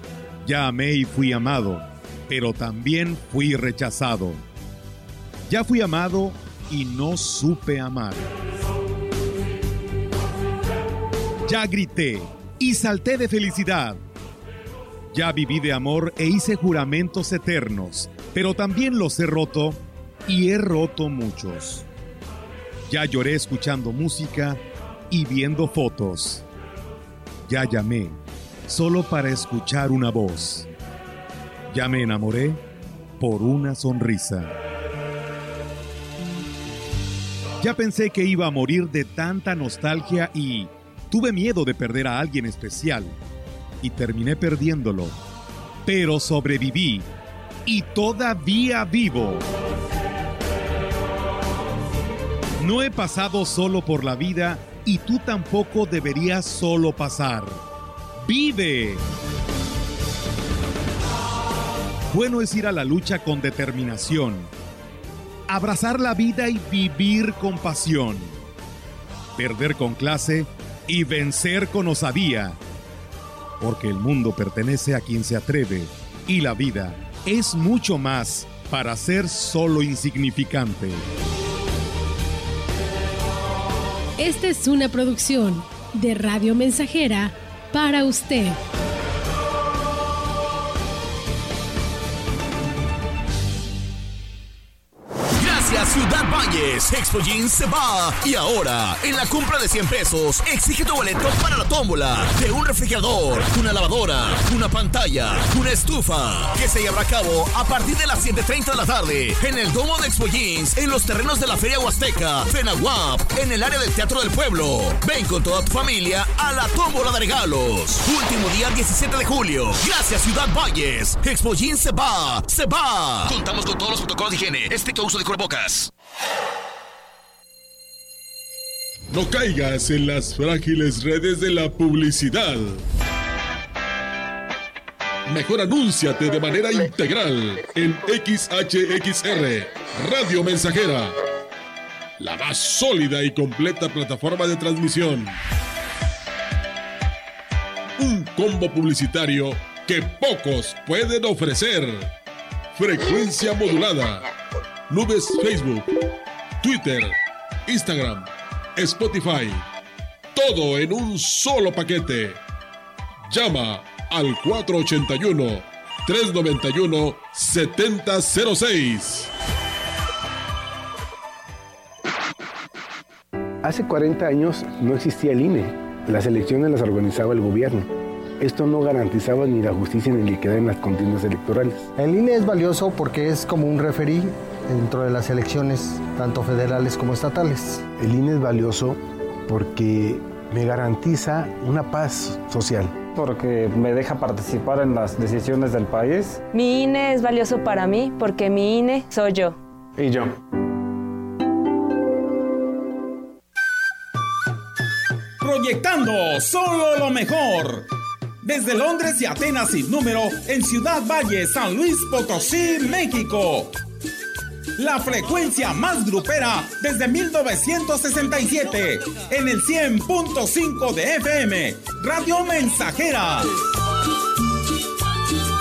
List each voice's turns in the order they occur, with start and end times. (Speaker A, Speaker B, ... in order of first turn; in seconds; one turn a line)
Speaker A: 0.4-4.4
Speaker A: 5.5-8.3
Speaker A: 11.4-14.0
Speaker A: 15.1-21.9
Speaker A: 22.9-26.4
Speaker A: 27.5-30.7
Speaker A: 31.7-32.6
Speaker A: 33.2-34.5
Speaker A: 37.6-43.2
Speaker A: 43.8-45.2
Speaker A: 45.8-47.1
Speaker A: 47.6-49.5
Speaker A: 52.6-57.6
Speaker A: 58.2-59.0
Speaker A: 62.1-64.5
Speaker A: 65.5-68.4
Speaker A: 69.3-72.6
Speaker A: 73.6-81.0
Speaker B: 84.2-88.6
Speaker C: 95.4-125.9
Speaker D: 129.1-132.8
Speaker D: 135.3-141.1
Speaker D: 142.2-145.4
Speaker D: 148.0-152.1
Speaker D: 152.8-154.3
Speaker D: 154.9-155.9
Speaker D: 156.6-159.6
Speaker D: 160.3-162.4
Speaker D: 163.3-169.3
Speaker E: 173.6-177.9
Speaker E: 178.4-181.9
Speaker F: 182.0-187.9
Speaker E: 187.9-193.1
Speaker G: 193.3-196.4
Speaker H: 196.5-199.6
Speaker E: 200.0-200.3
Speaker I: 205.4-207.9
Speaker I: 208.4-213.8
Speaker I: 214.8-223.5